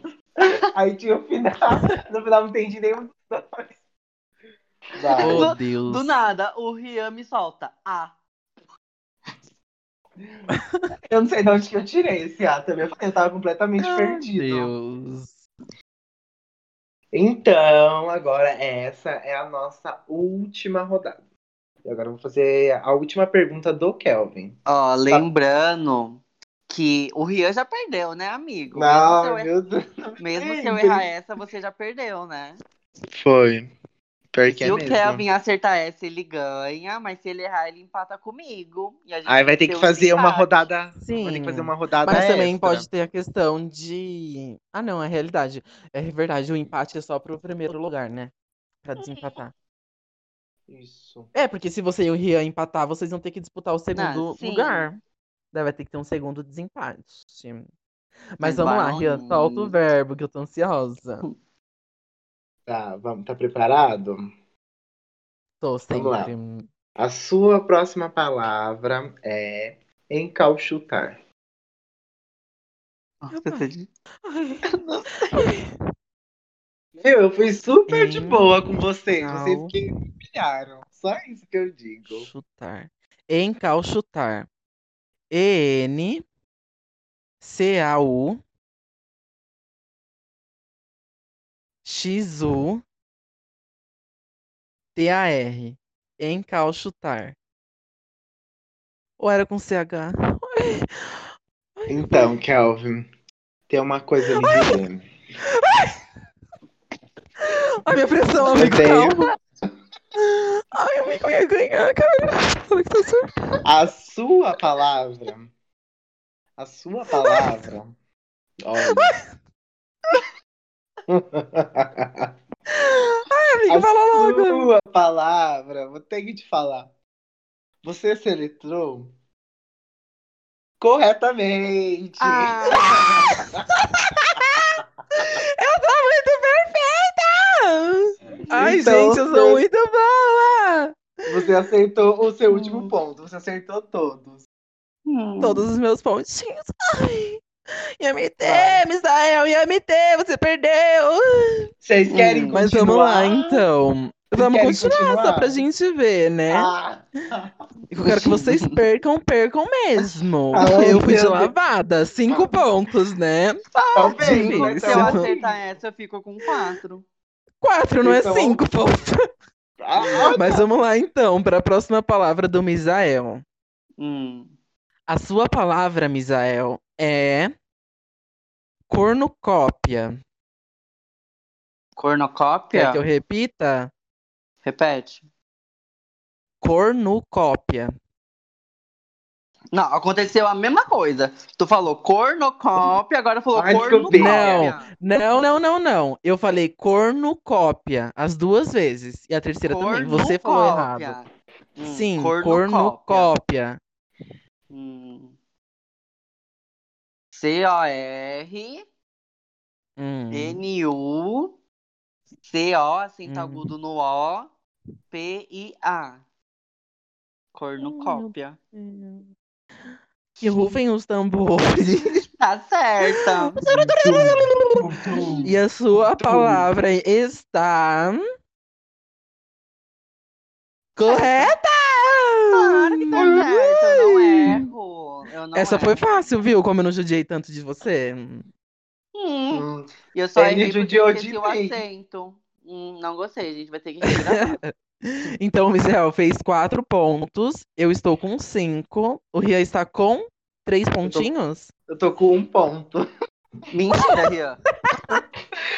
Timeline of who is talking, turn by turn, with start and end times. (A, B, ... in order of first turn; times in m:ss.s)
0:00.4-0:03.8 A
0:05.0-0:05.5 A
0:05.1-0:08.1 B
0:05.2-0:06.2 C
0:10.5-0:10.9 C
0:11.1-0:14.7 A
0:13.8-0:15.4 C
0:17.1-0:21.2 A
0:21.8-0:24.6 A
0:24.6-0:29.5 B
0:28.7-0:31.1 A
0:30.2-0:32.6 B
0:33.2-0:33.7 A
0:34.3-0:35.2 A
0:34.5-0:40.6 B
0:39.2-0:42.9 A
0:41.0-0:48.3 C
0:48.8-0:49.5 C
0:50.7-0:51.3 A
0:51.3-0:55.0 C
0:53.9-0:54.9 B
0:55.5-0:57.7 C
0:58.4-1:01.2 C
0:58.4-0:59.7 B
1:02.7-1:04.3 A
1:05.6-1:06.7 C
1:05.9-1:06.3 A
1:07.0-1:11.2 A
1:13.2-1:13.9 B
1:13.3-1:13.7 C
1:14.2-1:14.6 C
1:14.7-1:15.4 B
1:15.3-1:15.7 C
1:17.0-1:22.3 A
1:17.9-1:18.5 C
1:19.2-1:19.7 C
1:22.1-1:24.5 C
1:25.3-1:26.2 C
1:27.4-1:28.4 C
1:31.8-1:32.8 C
1:35.0-1:37.4 C
1:39.2-1:41.2 C
1:41.8-1:42.4 C
1:41.9-1:43.1 A
1:43.7-1:45.0 A
1:44.4-1:44.8 C
1:45.6-1:46.0 C
1:47.4-1:49.3 C
1:48.4-1:49.2 A
1:50.2-1:53.3 C
1:53.6-1:55.5 A
1:56.6-1:57.9 A
1:57.1-1:57.5 C
1:58.6-1:59.1 A
1:58.8-1:59.2 C
2:01.1-2:02.3 A
2:02.7-2:04.7 C
2:03.7-2:06.9 A
2:07.8-2:09.1 A
2:10.8-2:13.6 A
2:12.2-2:13.4 B
2:13.7-2:21.0 C
2:18.5-2:19.6 A
2:21.3-2:24.4 A
2:22.5-2:22.9 B
2:25.0-2:25.7 B
2:25.4-2:27.4 C
2:28.0-2:31.7 C
2:28.4-2:28.8 A
2:31.8-2:33.6 A
2:32.1-2:32.6 B
2:32.5-2:36.7 C
2:34.3-2:35.6 A
2:36.5-2:37.5 A
2:37.9-2:45.3 C
2:38.1-2:38.8 B
2:40.5-2:40.9 B
2:40.5-2:41.5 A
2:42.3-2:42.6 A
2:43.7-2:47.0 B
2:44.0-2:45.8 A
2:47.6-2:49.2 C
2:48.0-2:48.6 A
2:49.8-2:50.7 A
2:50.0-2:53.4 C
2:54.0-2:54.5 B
2:55.1-2:57.5 C
2:58.9-3:00.2 C
3:02.0-3:03.0 B
3:02.7-3:03.9 C
3:04.6-3:05.2 B
3:06.6-3:07.9 C
3:09.7-3:14.9 B
3:13.5-3:14.7 A
3:14.1-3:21.2 C
3:19.6-3:21.2 B
3:21.8-3:23.3 B
3:21.8-3:23.8 C
3:24.7-3:25.3 B
3:27.3-3:28.8 B
3:30.0-3:30.6 C
3:30.3-3:31.5 B
3:32.4-3:34.5 B
3:33.3-3:33.7 C
3:35.1-3:36.2 B
3:37.5-3:38.6 B
3:37.8-3:39.3 C
3:40.4-3:42.2 C
3:42.4-3:43.7 B
3:43.1-3:44.8 C
3:43.6-3:46.7 A
3:45.1-3:45.5 B
3:45.4-3:48.2 C
3:51.0-3:53.5 C
3:51.0-3:51.5 B
3:52.5-3:56.3 B
3:53.2-3:53.5 A
3:54.0-3:54.6 C
3:55.5-3:58.5 C
3:59.1-4:04.6 B
3:59.5-4:01.8 A
4:04.1-4:11.7 C
4:11.0-4:11.3 A
4:11.9-4:13.0 A
4:13.7-4:14.6 B
4:14.9-4:15.2 C